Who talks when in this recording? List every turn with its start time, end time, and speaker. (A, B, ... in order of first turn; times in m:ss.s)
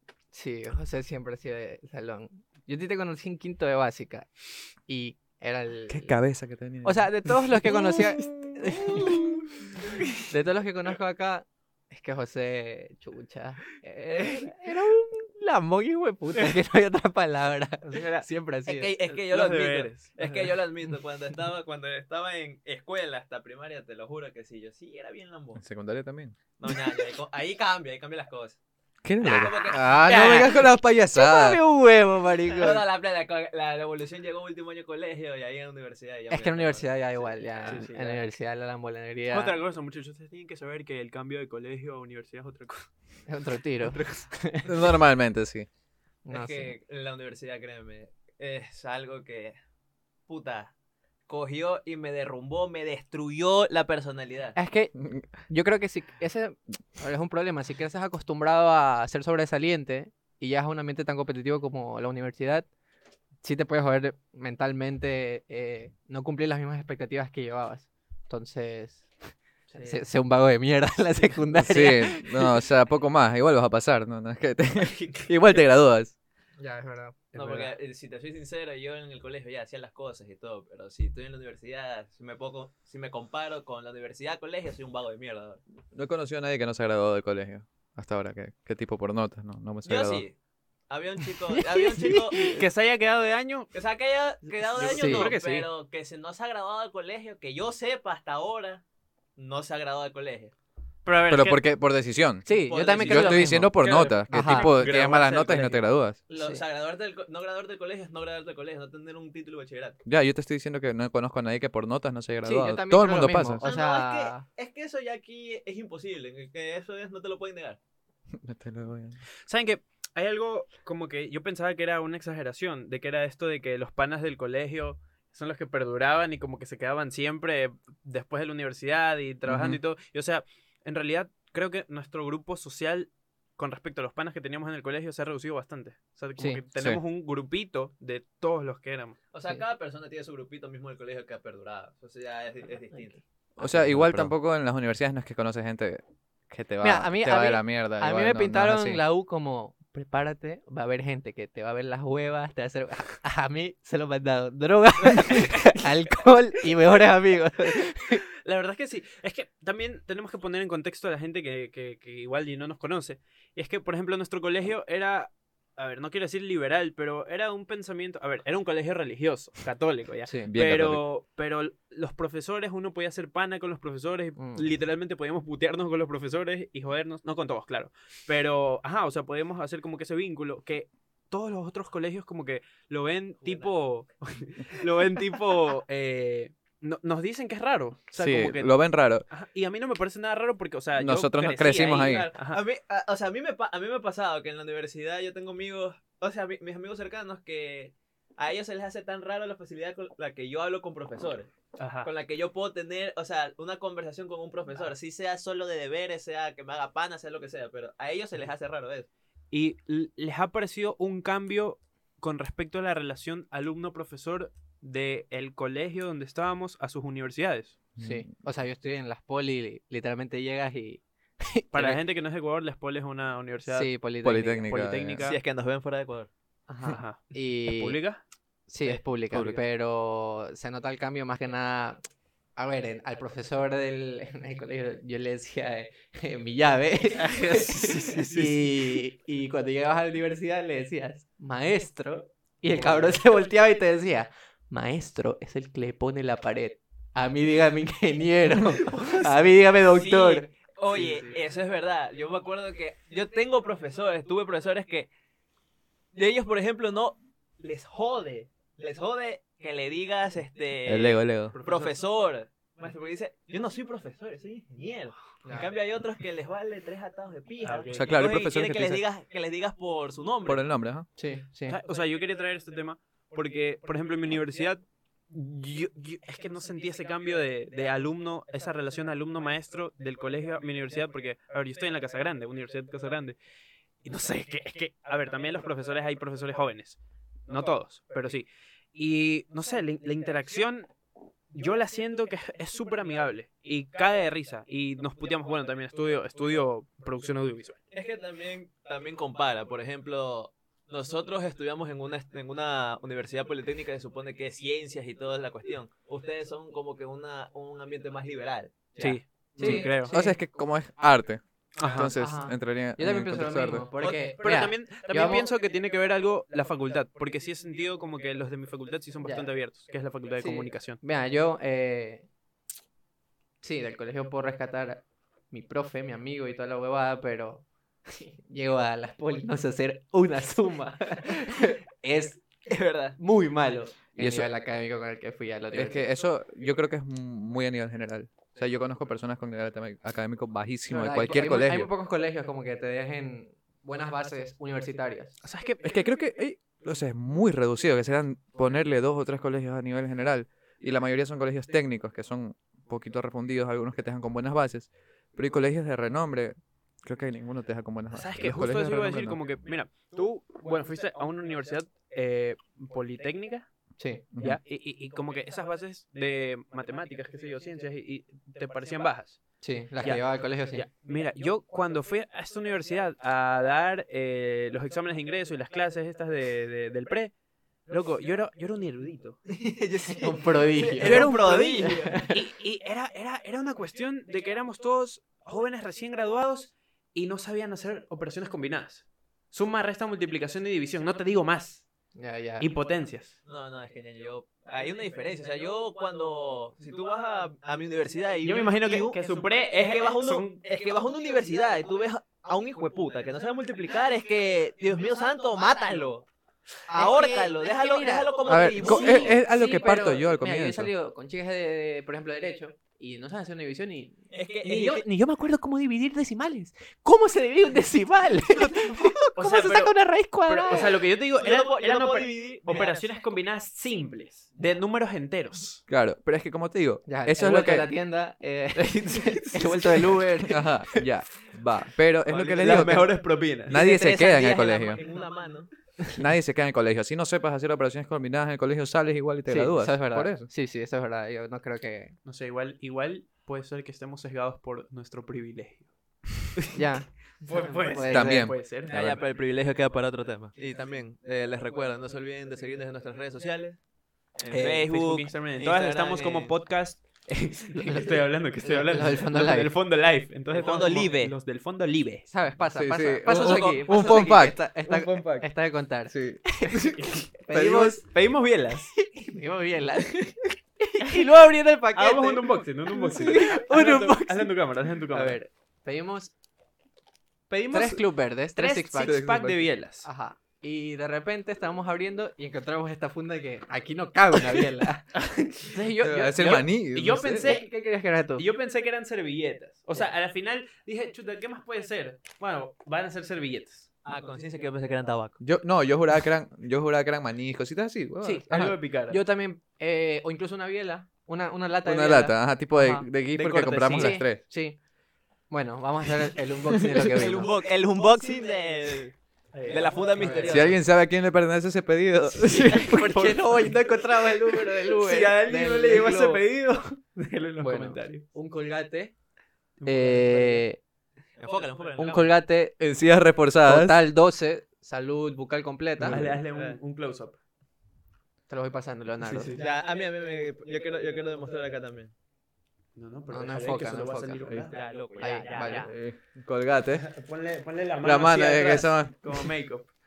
0:00.3-0:04.3 A
0:04.8-0:06.2 A
0:05.9-0:09.5 B
0:06.8-0:09.3 A
0:10.3-0:18.9 A
0:17.9-0:18.3 C
0:18.7-0:25.6 D
0:19.0-0:20.6 C
0:25.6-0:26.3 B
0:26.6-0:28.6 D
0:29.0-0:31.6 B
0:29.2-0:30.6 D
0:30.0-0:30.5 A
0:31.1-0:32.8 A
0:32.5-0:37.9 D
0:36.3-0:39.6 A
0:37.6-0:38.2 C
0:39.3-0:42.9 C
0:43.3-0:44.9 A
0:44.6-0:45.7 B
0:46.2-0:46.7 A
0:46.3-0:49.6 D
0:50.3-0:50.7 D
0:51.3-0:54.6 D
0:54.5-0:54.9 A
0:54.9-0:55.3 B
0:55.5-1:02.7 A
1:03.4-1:09.1 A
1:09.8-1:12.6 A
1:11.5-1:16.1 B
1:14.8-1:15.3 D
1:16.6-1:17.7 A
1:17.3-1:25.6 D
1:25.9-1:30.2 B
1:29.8-1:30.4 D
1:30.9-1:32.6 D
1:31.5-1:32.6 A
1:32.5-1:33.7 C
1:33.7-1:38.8 D
1:34.7-1:35.7 C
1:34.9-1:35.3 A
1:39.4-1:40.5 D
1:41.0-1:41.6 C
1:41.3-1:42.5 B
1:42.4-1:43.8 A
1:42.5-1:45.7 C
1:43.0-1:46.2 B
1:44.3-1:44.7 A
1:44.8-1:50.0 D
1:46.4-1:46.6 A
1:50.0-1:53.6 B
1:52.4-1:54.4 A
1:53.6-1:57.8 D
1:58.3-1:59.2 B
1:59.5-2:19.2 C
2:09.5-2:09.8 B
2:19.3-2:23.2 D
2:23.6-2:24.3 A
2:23.6-2:29.0 B
2:26.8-2:38.2 A
2:38.4-3:12.6 C
2:50.5-2:51.0 B
2:54.4-2:54.7 A
3:03.4-3:03.7 D
3:08.2-3:09.2 B
3:11.0-3:12.3 B
3:11.6-3:21.5 D
3:21.8-3:22.1 C
3:22.0-3:29.1 D
3:29.5-3:37.8 C
3:38.0-3:42.0 A
3:41.7-3:43.9 C
3:43.7-3:44.7 A
3:44.2-3:45.3 B
3:44.6-3:45.4 C
3:45.2-3:46.3 D
3:46.7-3:48.0 A
3:46.9-3:48.2 C
3:48.7-3:52.0 A
3:49.3-3:49.6 B
3:52.6-4:11.2 A
3:57.2-3:58.6 C
4:09.9-4:15.1 D
4:16.1-4:30.7 D
4:20.8-4:21.5 B
4:21.5-4:22.0 C
4:27.6-4:28.2 C
4:27.9-4:29.0 B
4:30.4-4:31.1 B
4:31.2-4:31.8 A
4:31.7-4:43.4 C
4:44.0-4:50.9 C
4:51.5-4:57.8 C
4:57.9-5:09.0 D
5:09.0-5:10.4 A
5:09.0-5:10.1 C
5:09.6-5:13.9 B
5:11.8-5:12.1 C
5:12.0-5:15.5 A
5:14.0-5:14.7 D
5:14.4-5:21.0 C
5:19.2-5:19.5 A
5:20.4-5:22.3 A
5:23.6-5:32.4 A
5:32.6-5:33.2 D
5:33.2-5:36.1 A
5:34.2-5:34.5 B
5:35.7-5:41.9 B
5:40.9-5:45.4 A
5:45.4-5:45.9 C
5:45.8-5:59.4 B
5:58.1-6:03.7 C
6:04.0-6:04.2 A
6:04.3-6:04.6 B
6:04.4-6:09.4 C
6:09.6-6:10.8 A
6:10.0-6:17.3 C
6:17.9-6:19.4 C
6:19.5-6:22.2 D
6:20.1-6:21.3 A
6:21.0-6:31.9 C
6:21.9-6:22.4 A
6:32.2-6:32.7 A
6:32.6-6:33.4 C
6:33.4-6:46.3 D
6:38.4-6:40.6 C
6:46.9-7:01.0 A
6:46.9-6:49.4 D
6:48.5-6:50.9 B
6:54.3-6:55.0 D
6:59.3-6:59.9 C
7:00.4-7:05.8 C
7:01.4-7:03.1 D
7:05.9-7:07.9 B
7:07.1-7:11.0 A
7:08.9-7:10.0 C
7:10.5-7:15.0 B
7:12.3-7:15.7 D
7:12.6-7:13.7 C
7:16.2-7:20.5 B
7:19.5-7:22.1 A
7:22.2-7:25.9 C
7:26.7-7:28.5 A
7:27.4-7:28.9 C
7:28.1-7:29.2 B
7:28.8-7:33.8 D
7:34.4-7:36.5 D
7:34.4-7:42.2 C
7:34.5-7:34.8 A
7:37.6-7:39.7 A
7:40.5-7:41.3 D
7:42.3-7:48.0 A
7:42.7-7:45.5 B
7:46.1-7:47.0 B
7:46.9-7:48.9 C
7:49.0-7:54.6 A
7:51.9-7:55.4 C
7:55.1-7:56.3 A
7:57.5-8:00.1 C
7:57.7-7:59.2 A
7:59.0-7:59.6 B
8:00.0-8:06.6 A
8:06.0-8:07.5 B
8:06.4-8:07.7 C
8:07.4-8:08.4 A
8:08.4-8:13.9 C
8:14.0-8:15.4 D
8:15.4-8:18.8 B
8:18.2-8:19.2 C
8:18.2-8:23.1 A
8:21.8-8:24.4 B
8:23.3-8:24.2 C
8:23.9-8:24.8 A
8:25.5-8:27.5 A
8:27.1-8:29.1 D
8:29.5-8:30.6 C
8:29.7-8:30.7 A
8:29.7-8:30.8 D
8:30.4-8:32.9 B
8:32.4-8:36.4 A
8:32.7-8:33.7 C
8:34.6-8:38.2 C
8:37.6-8:39.1 A
8:39.8-8:40.6 C
8:39.8-8:40.8 A
8:41.4-8:42.3 D
8:42.0-8:42.7 A
8:42.8-8:44.0 B
8:43.6-8:46.2 A
8:46.0-8:46.4 B
8:46.0-8:47.4 C
8:46.5-8:46.8 D
8:48.5-8:49.5 A
8:49.2-8:49.6 C
8:49.5-8:52.1 D
8:53.0-8:54.8 C
8:53.3-8:54.5 A
8:54.6-8:55.9 D
8:55.2-8:55.9 A
8:55.4-8:55.8 C
8:55.6-8:57.1 B
8:57.0-8:59.9 C
8:58.0-8:59.5 B